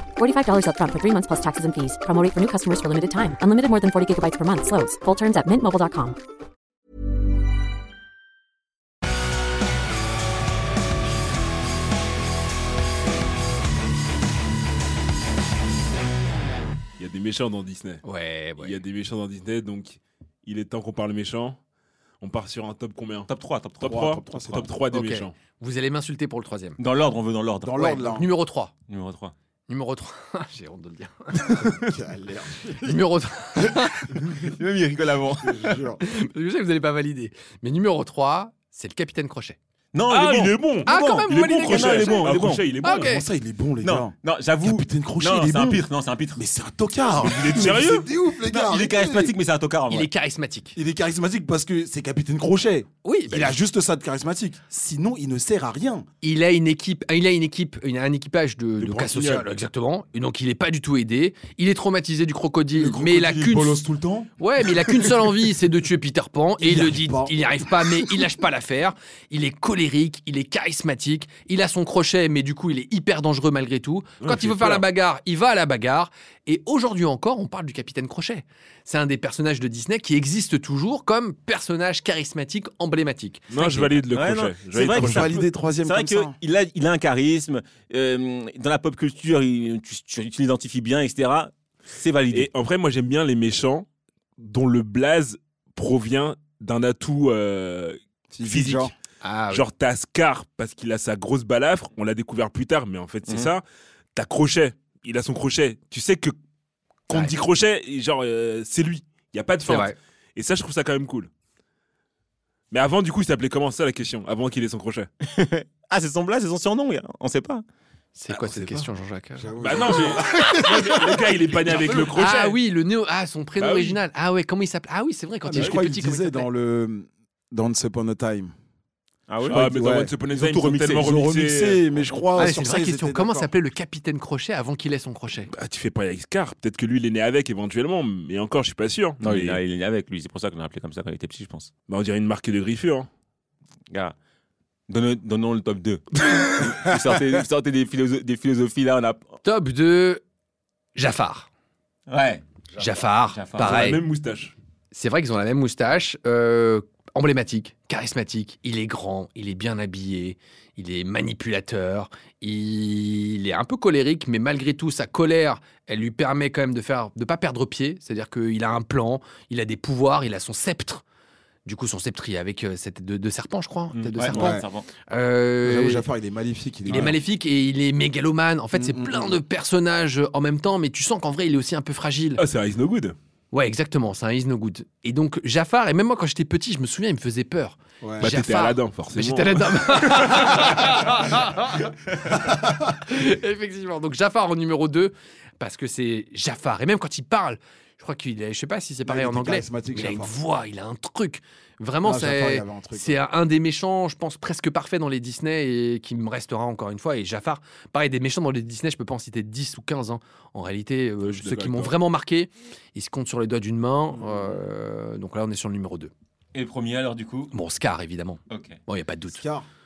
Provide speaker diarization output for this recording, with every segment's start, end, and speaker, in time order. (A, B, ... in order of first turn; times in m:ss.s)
0:00.5-0:03.7 A
0:04.3-0:04.8 A
0:17.0-0:18.0 B
0:18.0-0:18.8 C
0:18.6-0:21.6 B
0:22.2-0:23.3 B
0:23.3-0:24.0 D
0:23.8-0:25.3 B
0:23.8-0:24.8 E
0:24.9-0:26.8 C
0:26.8-0:28.0 D
0:27.6-0:28.3 E
0:27.8-0:28.7 C
0:28.9-0:29.3 D
0:29.7-0:31.7 C
0:31.6-0:33.0 E
0:32.8-0:34.1 C
0:34.1-0:35.8 D
0:35.4-0:36.0 E
0:36.0-0:39.6 C
0:39.9-0:42.6 D
0:40.1-0:43.1 B
0:40.9-0:42.3 C
0:42.8-0:43.3 C
0:43.0-0:49.3 E
0:43.8-0:46.4 D
0:47.2-0:48.1 B
0:48.4-0:50.1 D
0:49.9-0:50.8 C
0:50.8-0:56.1 E
0:53.0-0:53.6 C
0:56.2-1:03.8 C
0:58.8-0:59.5 E
1:02.8-1:04.3 E
1:04.4-1:23.9 C
1:06.6-1:08.3 E
1:14.2-1:14.8 B
1:23.5-1:25.4 B
1:24.0-1:32.5 D
1:24.9-1:26.4 E
1:32.3-1:33.9 B
1:34.4-1:38.9 B
1:38.3-1:38.9 E
1:39.2-1:39.6 C
1:39.5-1:43.6 B
1:43.3-1:43.5 D
1:44.1-1:46.3 B
1:47.1-1:51.3 B
1:47.1-1:47.4 C
1:49.6-1:50.0 C
1:52.7-1:55.1 B
1:55.2-1:57.6 D
1:58.1-2:00.2 C
1:58.3-1:58.9 B
1:59.4-2:02.1 E
1:59.6-2:02.6 B
2:02.2-2:06.5 C
2:03.6-2:04.0 B
2:05.4-2:08.5 E
2:05.6-2:05.8 B
2:09.3-2:09.6 D
2:09.4-2:10.1 E
2:09.5-2:11.8 B
2:10.3-2:11.2 D
2:11.0-2:13.5 E
2:12.4-2:15.5 C
2:15.5-2:19.6 B
2:19.2-2:21.7 D
2:21.9-2:23.1 B
2:23.9-2:24.2 D
2:24.9-2:29.3 D
2:29.4-2:30.2 C
2:31.0-2:31.5 C
2:32.1-2:33.9 D
2:32.8-2:34.0 C
2:33.5-2:34.6 B
2:34.9-2:51.0 C
2:51.6-2:56.1 C
2:54.0-2:54.9 D
2:54.3-2:54.7 E
2:55.6-2:57.2 E
2:56.9-3:02.4 C
2:58.7-2:59.4 E
3:02.4-3:03.2 B
3:03.5-3:36.1 C
3:08.0-3:08.3 E
3:08.2-3:09.8 B
3:19.0-3:20.4 E
3:22.0-3:23.2 E
3:31.2-3:32.0 B
3:34.1-3:34.6 E
3:36.5-3:37.5 D
3:37.5-3:39.4 C
3:38.5-3:38.8 D
3:39.3-3:39.7 E